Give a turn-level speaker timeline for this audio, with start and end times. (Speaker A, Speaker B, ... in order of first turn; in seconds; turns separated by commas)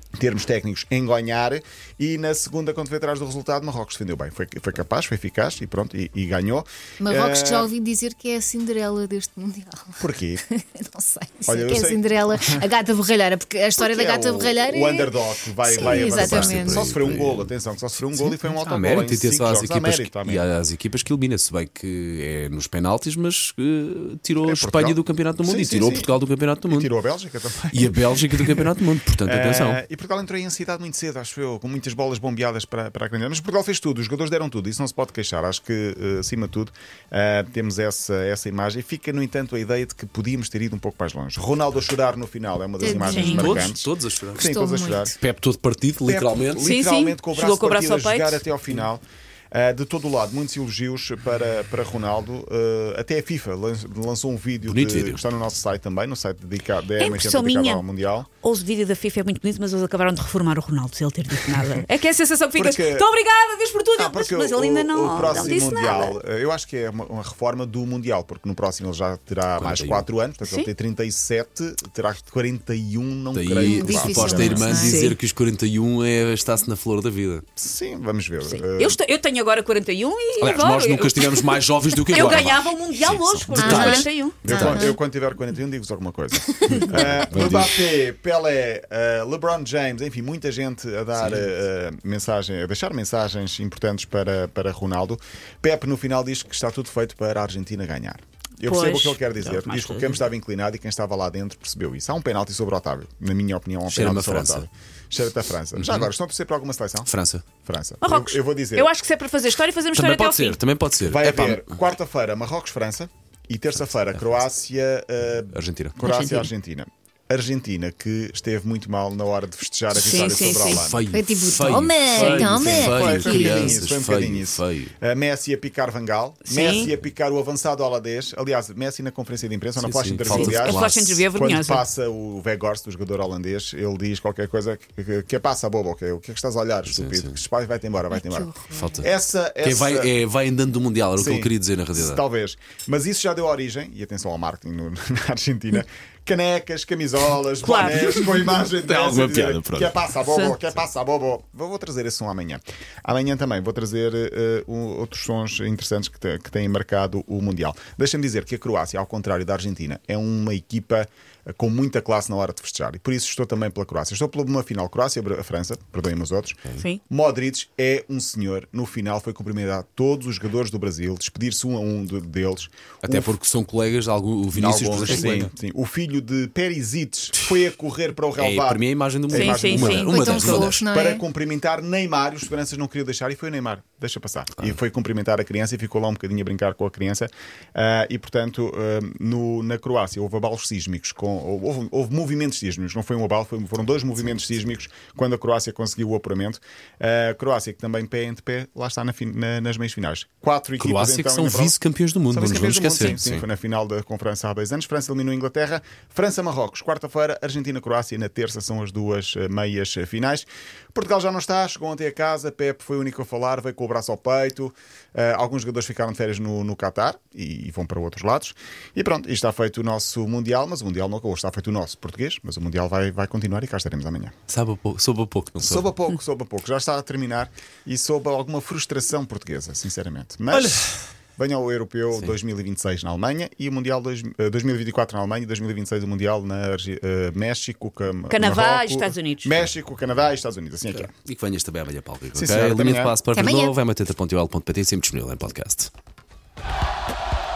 Speaker A: 0.2-7.7, Speaker B: 7.0-16.8, Speaker A: 10.0-10.4, Speaker A: 11.4-12.7, Speaker A: 13.8-20.4, Speaker C: 15.7-17.5, Speaker C: 18.1-26.9, Speaker A: 24.4-45.1, Speaker C: 27.7-29.8, Speaker B: 42.8-43.7, Speaker D: 43.0-43.6, Speaker C: 43.1-44.5, Speaker B: 44.3-45.1, Speaker C: 45.1-46.7, Speaker A: 46.0-58.3, Speaker D: 46.6-48.4, Speaker C: 54.6-55.2, Speaker D: 57.0-57.8, Speaker D: 58.4-66.2, Speaker A: 61.3-61.7, Speaker A: 62.5-63.1, Speaker A: 63.9-74.8, Speaker C: 69.5-70.1, Speaker C: 73.3-77.4, Speaker B: 73.5-75.1, Speaker D: 74.2-75.2, Speaker A: 77.6-79.0, Speaker D: 78.4-84.4, Speaker C: 80.4-84.9, Speaker B: 83.5-85.0, Speaker A: 84.4-107.1, Speaker C: 86.7-87.8, Speaker C: 91.2-91.5, Speaker D: 98.6-100.2, Speaker C: 103.9-104.7, Speaker C: 105.7-106.1, Speaker C: 107.0-107.4, Speaker A: 107.6-108.9, Speaker D: 108.0-110.6, Speaker C: 109.9-111.8, Speaker A: 111.0-121.0, Speaker C: 114.1-114.4, Speaker C: 115.5-116.0, Speaker D: 116.0-116.5, Speaker D: 119.9-120.9, Speaker C: 120.5-124.9, Speaker B: 121.1-123.8, Speaker A: 122.2-140.1, Speaker D: 123.2-123.7, Speaker D: 126.4-126.9, Speaker C: 129.8-131.2, Speaker D: 130.2-131.8, Speaker C: 136.9-137.3, Speaker B: 138.1-139.1, Speaker C: 138.7-139.1, Speaker C: 139.6-142.2, Speaker A: 141.2-173.3, Speaker D: 147.6-148.1, Speaker C: 148.2-150.1, Speaker D: 150.2-150.6, Speaker C: 173.0-175.5, Speaker A: 174.5-224.3, Speaker C: 178.3-180.8, Speaker D: 179.3-180.3, Speaker B: 180.0-181.2, Speaker C: 200.8-203.4, Speaker C: 224.5-225.9, Speaker A: 225.6-241.1, Speaker C: 230.5-231.0, Speaker C: 232.1-232.4, Speaker D: 238.3-239.6, Speaker C: 240.9-245.9, Speaker A: 242.3-243.1, Speaker B: 243.3-243.7